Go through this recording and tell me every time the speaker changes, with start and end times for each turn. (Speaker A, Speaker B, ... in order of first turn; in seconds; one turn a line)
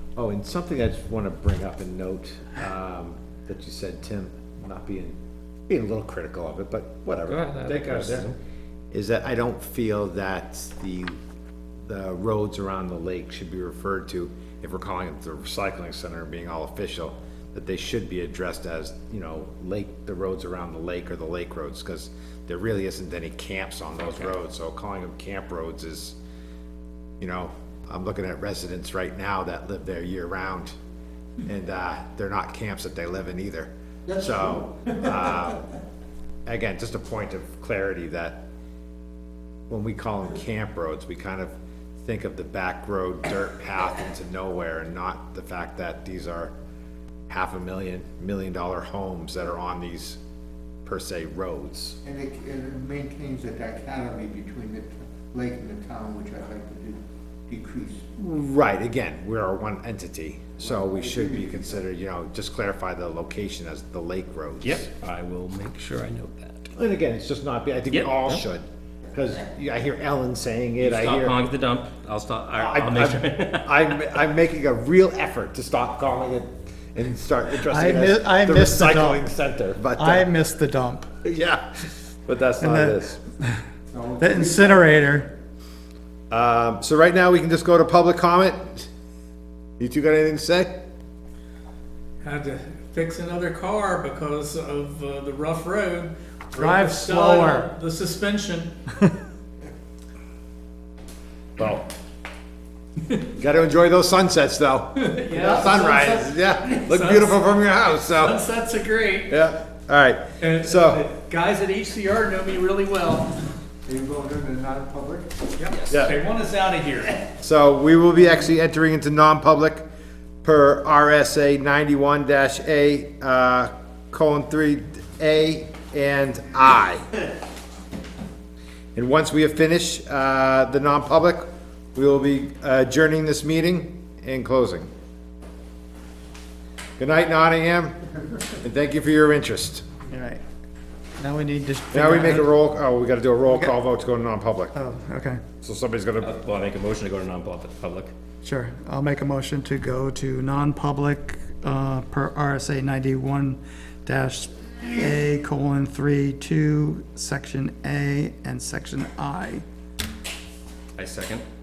Speaker A: 0.1-5.2
Speaker A: 5.7-8.3
Speaker B: 7.2-8.3
Speaker A: 8.9-11.1
Speaker A: 11.8-26.1
Speaker A: 27.2-30.7
Speaker A: 31.4-35.7
Speaker C: 34.1-34.9
Speaker A: 36.5-38.5
Speaker A: 39.7-41.5
Speaker A: 42.0-46.5
Speaker A: 47.3-50.2
Speaker A: 50.9-52.0
Speaker C: 52.0-58.1
Speaker A: 58.2-64.9
Speaker C: 60.6-61.6
Speaker B: 64.6-66.6
Speaker A: 66.7-71.4
Speaker B: 67.9-68.4
Speaker B: 70.8-73.7
Speaker A: 72.6-80.3
Speaker D: 77.7-79.2
Speaker D: 79.9-81.1
Speaker A: 81.2-83.2
Speaker D: 82.6-83.6
Speaker C: 83.9-85.2
Speaker D: 84.2-85.3
Speaker A: 86.3-88.9
Speaker A: 89.8-90.7
Speaker E: 92.2-98.7
Speaker D: 96.5-97.7
Speaker A: 101.6-101.9
Speaker A: 103.3-108.4
Speaker E: 105.0-107.4
Speaker E: 108.0-109.3
Speaker A: 109.3-111.1
Speaker E: 110.4-113.4
Speaker C: 113.8-115.3
Speaker E: 115.6-117.2
Speaker B: 115.7-116.0
Speaker A: 115.9-116.2
Speaker A: 117.4-119.8
Speaker A: 120.4-127.1
Speaker A: 128.9-134.9
Speaker A: 137.0-138.0
Speaker A: 138.5-139.8
Speaker D: 140.1-140.4
Speaker D: 141.2-142.5
Speaker A: 141.9-144.7
Speaker D: 144.7-145.4
Speaker A: 145.6-146.3
Speaker B: 146.2-148.1
Speaker D: 148.4-159.6
Speaker B: 160.9-161.4